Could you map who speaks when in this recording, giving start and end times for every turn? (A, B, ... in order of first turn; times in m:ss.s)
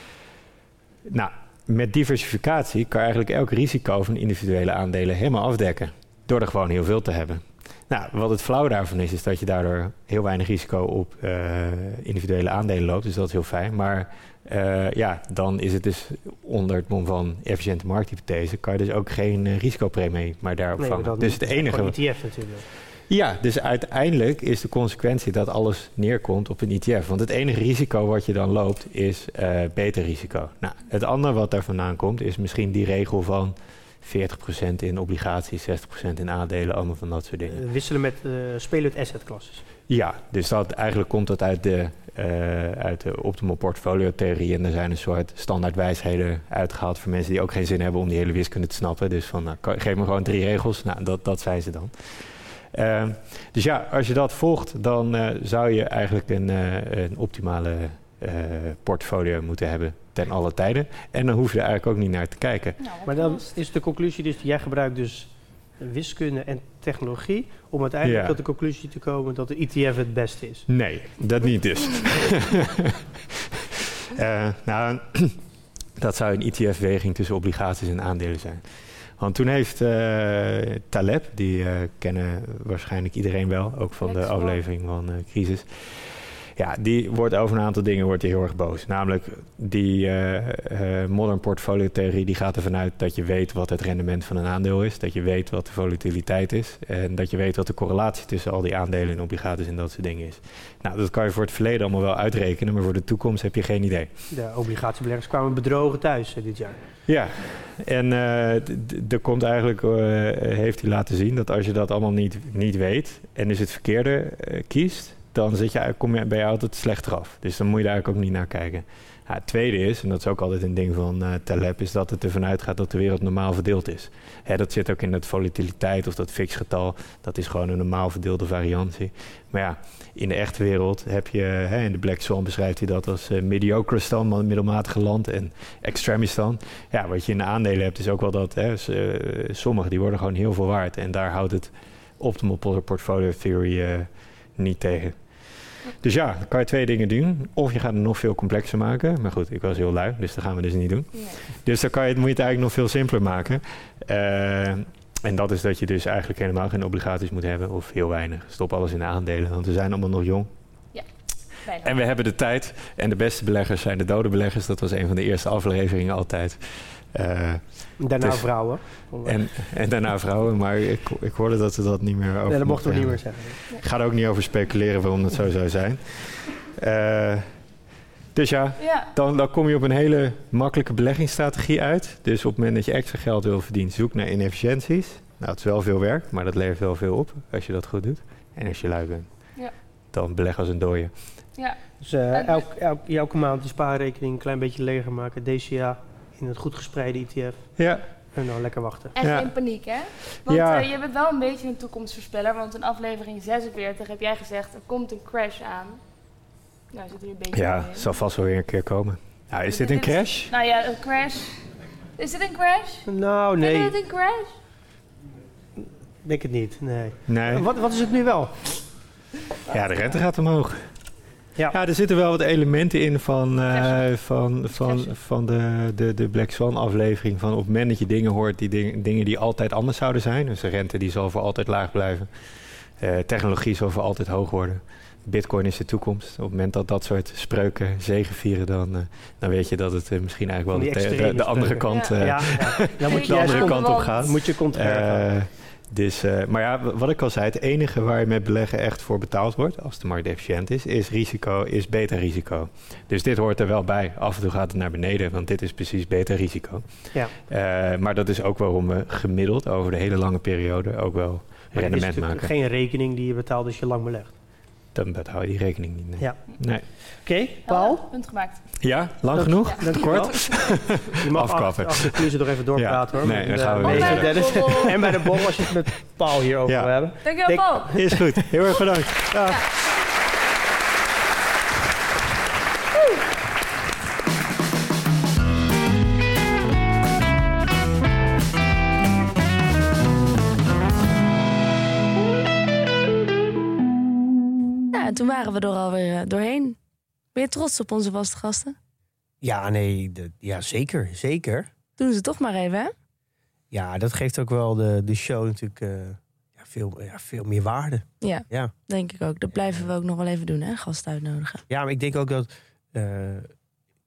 0:01.0-0:22.4 A
0:20.8-0:22.6 B
0:23.1-0:37.6 A
0:37.5-0:39.6 B
0:39.9-1:02.8 A
1:02.8-1:03.6 C
1:03.0-1:10.7 B
1:08.0-1:08.4 A
1:10.7-1:12.9 A
1:14.1-1:15.4 A
1:16.0-1:44.1 A
1:24.0-1:24.6 C
1:44.3-1:46.8 B
1:47.1-2:40.5 A
2:31.1-2:31.4 C
2:41.6-2:42.0 C
2:41.7-2:57.6 A
2:48.0-2:49.5 B
2:52.5-2:53.6 B
2:58.3-3:09.5 A
2:58.8-2:59.1 C
3:10.1-3:11.4 A
3:11.5-3:11.8 C
3:12.0-3:19.1 B
3:12.3-3:12.7 C
3:17.8-3:18.0 A
3:19.1-3:26.0 C
3:19.2-3:19.7 A
3:20.4-3:20.9 A
3:26.9-3:28.1 C
3:27.5-3:30.5 A
3:29.7-3:31.6 C
3:32.2-3:33.1 C
3:33.0-3:33.9 B
3:33.6-3:34.5 C
3:35.8-3:38.9 B
3:37.3-3:37.7 A
3:39.7-3:40.9 A
3:39.8-3:40.2 C
3:41.7-4:22.5 A
3:43.7-3:44.0 C
3:44.8-3:45.1 C
4:00.7-4:05.3 B
4:01.9-4:04.3 C
4:21.7-4:24.3 B
4:24.9-4:26.9 A
4:26.2-4:28.0 B
4:27.6-4:28.6 C
4:28.8-4:35.4 A
4:29.3-4:38.7 B
4:29.6-4:30.4 C
4:33.8-4:35.0 C
4:36.6-4:37.1 A
4:37.2-4:38.0 C
4:37.9-4:39.6 A
4:54.9-4:56.8 D
4:57.3-4:58.8 D
4:59.4-5:01.7 E
5:02.0-5:02.9 D
5:03.7-5:08.7 E
5:08.2-5:11.6 D
5:09.5-5:09.8 E
5:11.7-5:13.5 E